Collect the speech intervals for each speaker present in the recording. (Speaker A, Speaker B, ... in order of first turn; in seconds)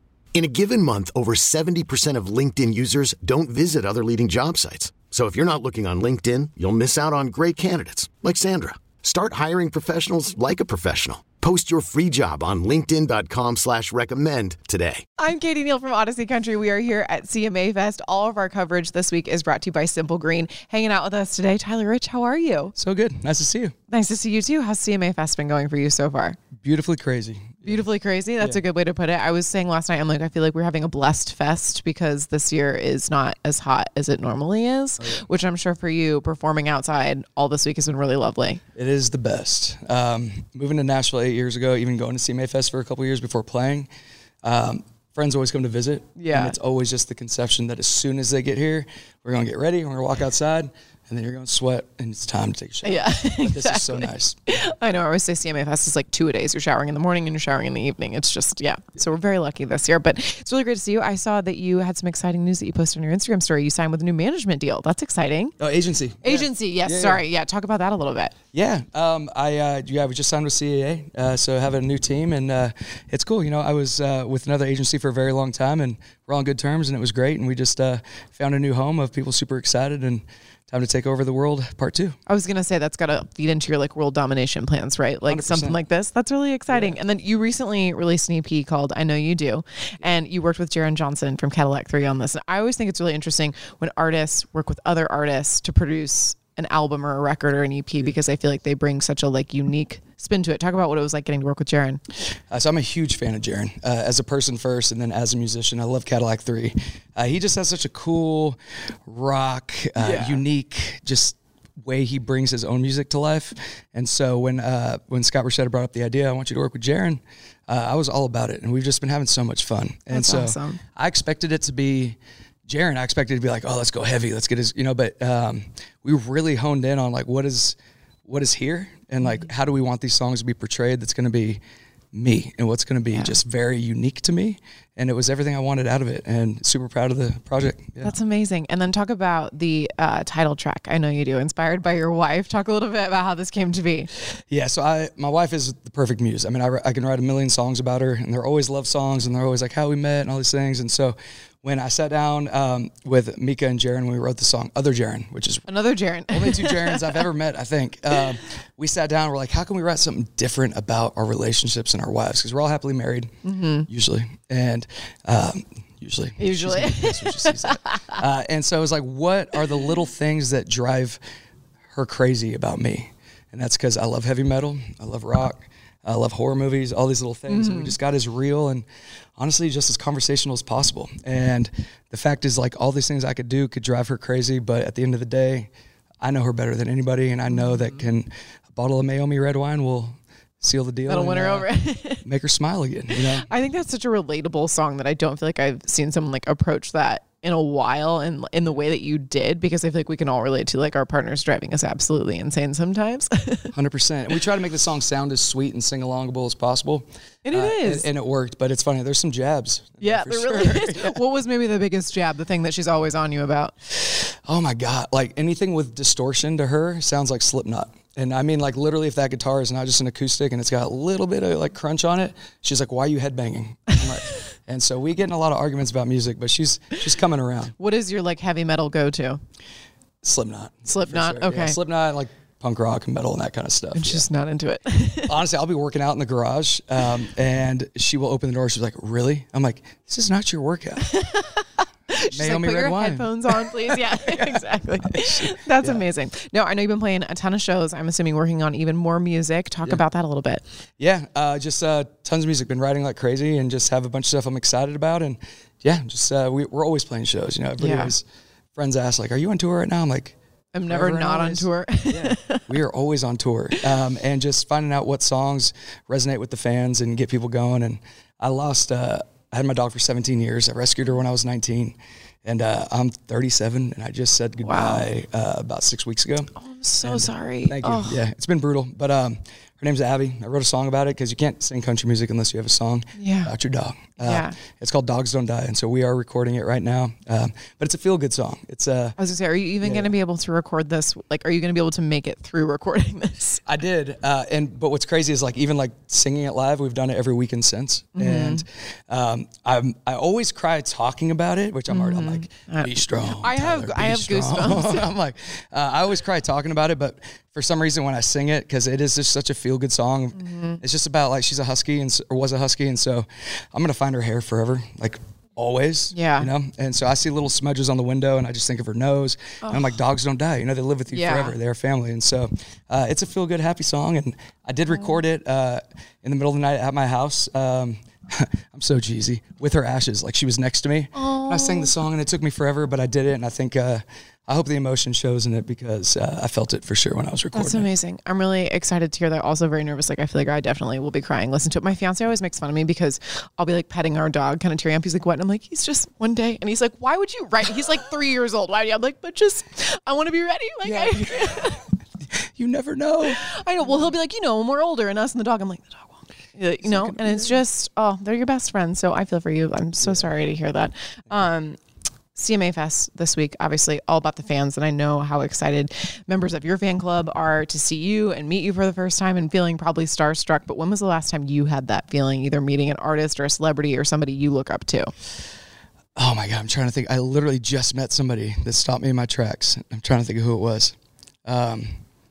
Speaker A: 0.3-15.0
Speaker B: 15.2-22.7, 23.9-26.4, 27.6-38.6, 46.2-46.6, 52.8-65.5, 66.2-68.3, 82.3-102.0, 110.0-110.4, 120.1-120.8, 138.0-144.1, 155.7-157.2, 163.4-163.9, 166.4-168.2, 177.5-177.9, 187.6-188.0, 191.1-192.2, 193.2-203.7, 207.4-208.1, 210.0-213.8, 227.8-229.4, 230.9-231.8, 233.9-235.3, 241.1-250.6, 257.8-258.1, 260.7-262.6, 274.6-275.1, 276.6-278.2, 283.2-283.5, 284.2-284.6, 289.2-293.6, 298.2-298.6, 301.9-305.1, 310.4-310.8, 316.1-316.5, 319.6-319.9, 321.1-321.6, 331.1-331.9, 337.5-351.8, 353.3-361.8, 362.4-375.1
Speaker C: 22.8-23.7, 26.6-27.9, 38.8-43.9, 44.4-54.4, 65.6-67.2, 68.5-82.2, 85.3-85.8, 86.7-87.0, 102.5-131.6, 132.1-138.1, 144.5-155.7, 156.3-163.3, 163.9-171.2, 171.9-178.9, 179.4-185.7, 186.2-191.7, 192.2-193.5, 203.7-211.2, 214.3-227.8, 230.2-234.3, 235.3-241.1, 242.3-244.6, 245.1-246.1, 251.0-258.2, 258.8-260.4, 260.9-276.5, 277.0-289.2, 289.8-290.1, 293.7-337.9, 350.8-351.7, 352.6-353.4, 356.8-357.6, 376.2-380.9, 381.5-382.0